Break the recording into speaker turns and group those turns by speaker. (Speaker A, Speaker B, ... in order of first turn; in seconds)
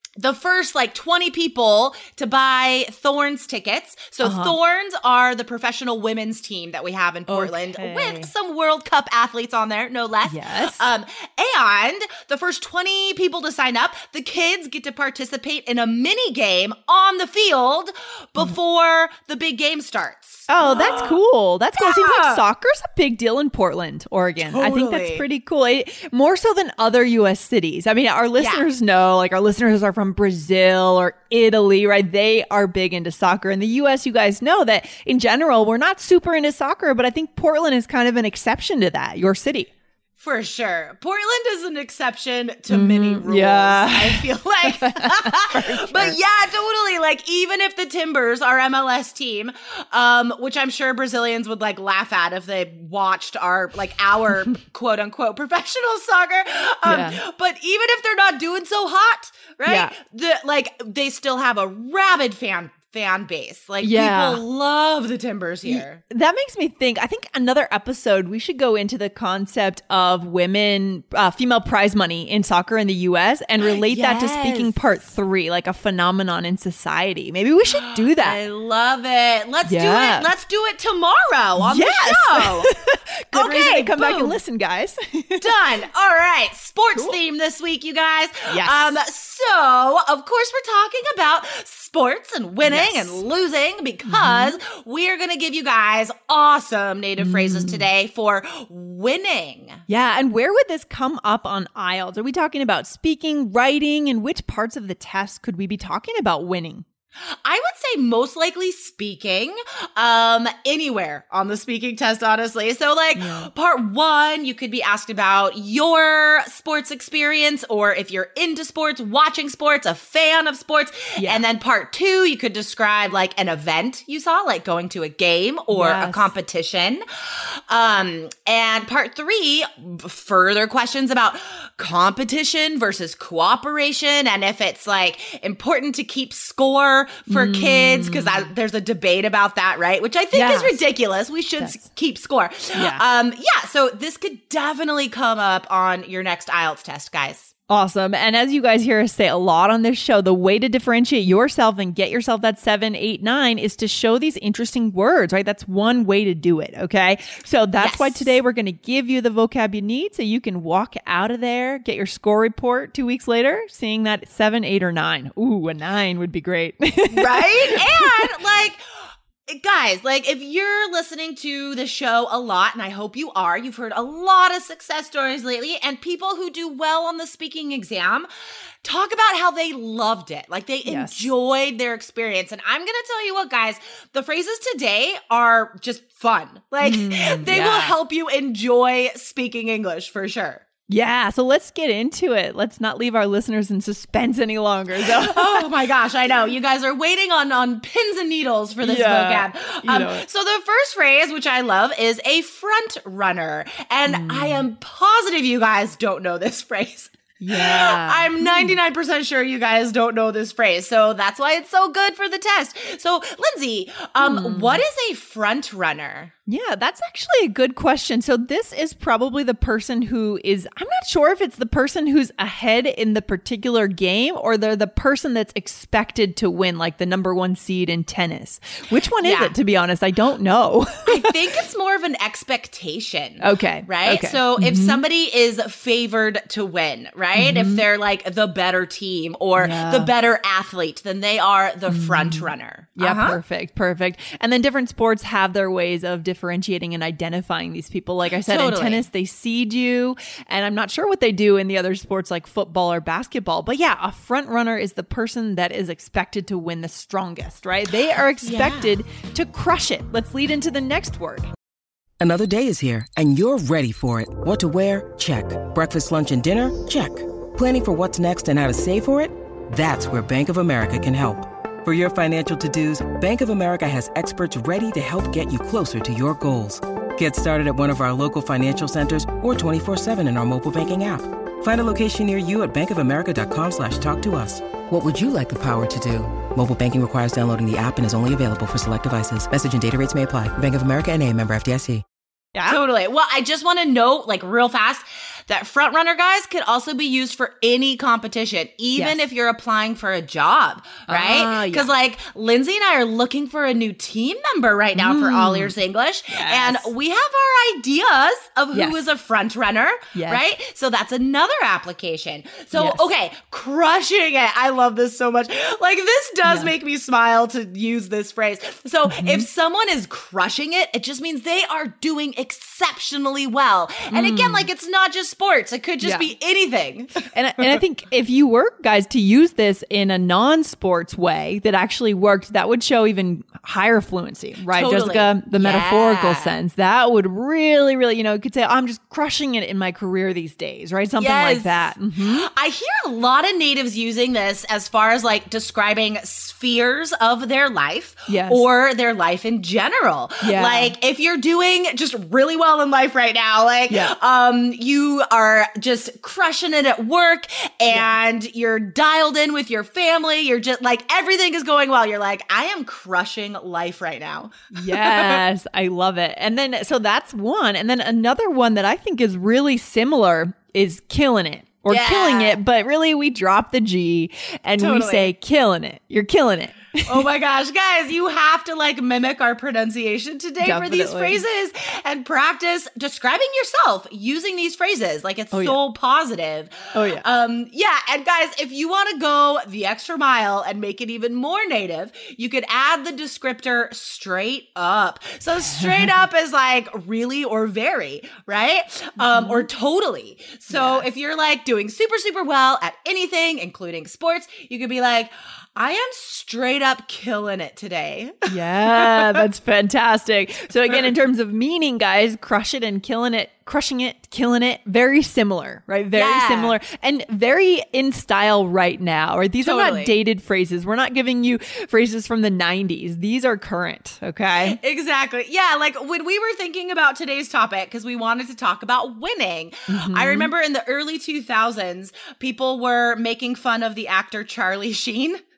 Speaker A: 0.2-21.2, 21.8-22.4, 24.4-25.2, 28.4-28.6, 40.2-66.0, 73.6-74.7, 77.8-82.7, 83.3-84.4, 85.4-99.8, 107.4-147.5, 157.8-158.3, 167.1-168.8, 169.5-178.3, 178.8-190.6, 195.0-216.3, 229.2-229.6, 231.1-243.4, 248.4-249.1, 258.4-259.0, 292.6-327.2, 334.7-336.5, 341.2-365.4, 371.9-372.6, 374.8-375.3, 377.1-409.4, 416.1-416.8, 419.6-420.1, 424.5-435.4
Speaker B: 4.2-4.5, 7.3-8.3, 10.2-10.9, 20.5-39.7, 42.7-46.2, 56.8-57.2, 59.6-59.9, 63.8-64.4, 65.6-78.4, 79.7-80.3, 81.6-85.5, 88.5-88.9, 92.6-93.2, 94.0-94.5, 97.2-97.8, 99.9-106.8, 113.2-113.5, 121.2-121.4, 125.7-126.3, 137.3-138.5, 140.3-140.8, 141.6-141.8, 142.7-143.0, 147.7-168.1, 180.8-181.3, 186.8-187.9, 190.9-195.7, 198.8-200.2, 204.1-204.6, 207.4-208.8, 214.2-214.8, 216.5-231.3, 233.4-235.0, 237.3-237.8, 239.6-240.1, 241.9-261.5, 301.1-301.9, 304.9-305.7, 306.3-306.9, 308.7-309.0, 310.1-310.4, 312.7-313.1, 316.4-316.7, 319.1-319.4, 324.1-324.7, 326.0-326.3, 327.2-342.5, 348.3-348.6, 350.4-350.9, 353.9-354.1, 364.7-377.2, 380.6-381.4, 385.5-385.8, 386.9-387.2, 395.7-396.1, 399.2-399.7, 400.7-401.1, 408.5-424.8, 429.9-430.5
Speaker C: 262.2-292.0